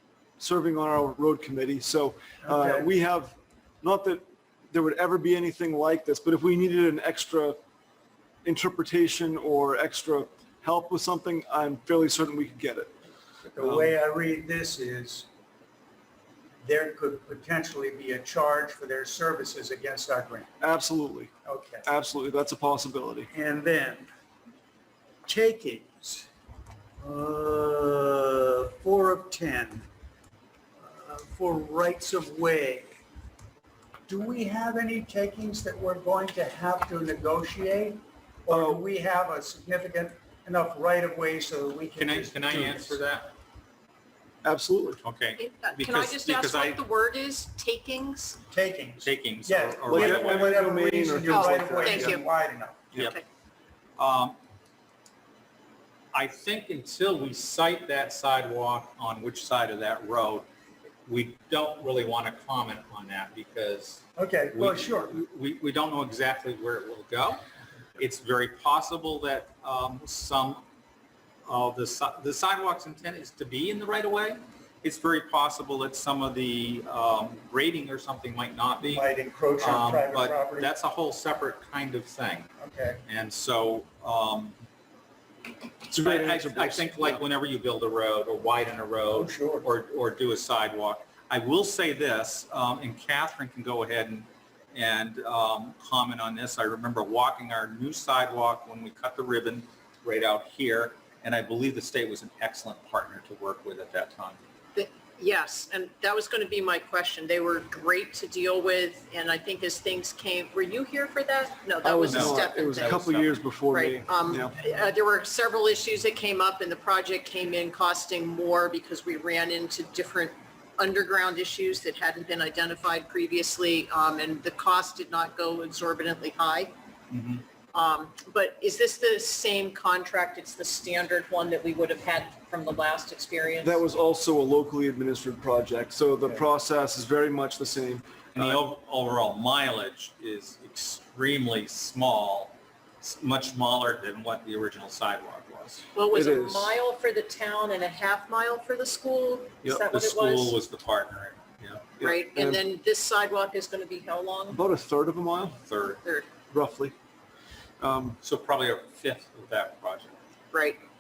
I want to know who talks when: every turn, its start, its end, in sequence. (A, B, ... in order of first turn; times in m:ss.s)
0:00.4-0:07.6 A
0:02.4-0:02.9 B
0:08.4-0:12.9 A
0:13.4-0:15.3 B
0:13.6-0:13.9 A
0:16.6-0:20.5 B
0:20.6-0:21.3 A
0:21.4-0:21.8 B
0:21.8-0:23.3 A
0:23.3-0:24.1 B
0:25.3-0:26.3 B
0:27.0-0:29.9 B
0:30.8-0:33.0 B
0:34.1-0:43.0 B
0:38.5-0:38.8 A
0:42.0-0:43.3 C
0:44.4-0:45.0 A
0:45.0-0:46.8 C
0:45.4-0:48.4 D
0:48.5-0:52.9 B
0:49.0-0:50.5 C
0:49.8-0:52.2 A
0:51.3-0:52.2 D
0:54.0-0:54.4 C
0:56.1-1:00.5 C
1:01.0-1:04.0 C
1:04.2-1:05.2 B
1:04.5-1:07.4 C
1:08.0-1:10.6 C
1:11.5-1:19.1 C
1:18.8-1:20.7 B
1:19.6-1:22.5 C
1:22.6-1:23.0 B
1:23.1-1:24.6 C
1:25.9-1:27.2 A
1:25.9-1:44.4 C
1:29.1-1:29.7 B
1:44.8-2:06.7 D
1:51.8-1:54.5 A
1:52.1-1:53.2 C
2:07.1-2:07.4 C
2:07.7-2:13.8 D
2:13.6-2:18.6 A
2:18.3-2:25.9 C
2:26.0-2:30.6 D
2:26.1-2:26.7 A
2:29.6-2:32.0 C
2:32.0-2:32.6 A
2:32.0-2:34.6 D
2:34.5-2:35.6 A
2:35.6-2:36.0 C
2:36.5-2:36.9 A
2:37.8-2:38.2 A
2:38.2-2:40.2 C
2:40.5-2:40.8 D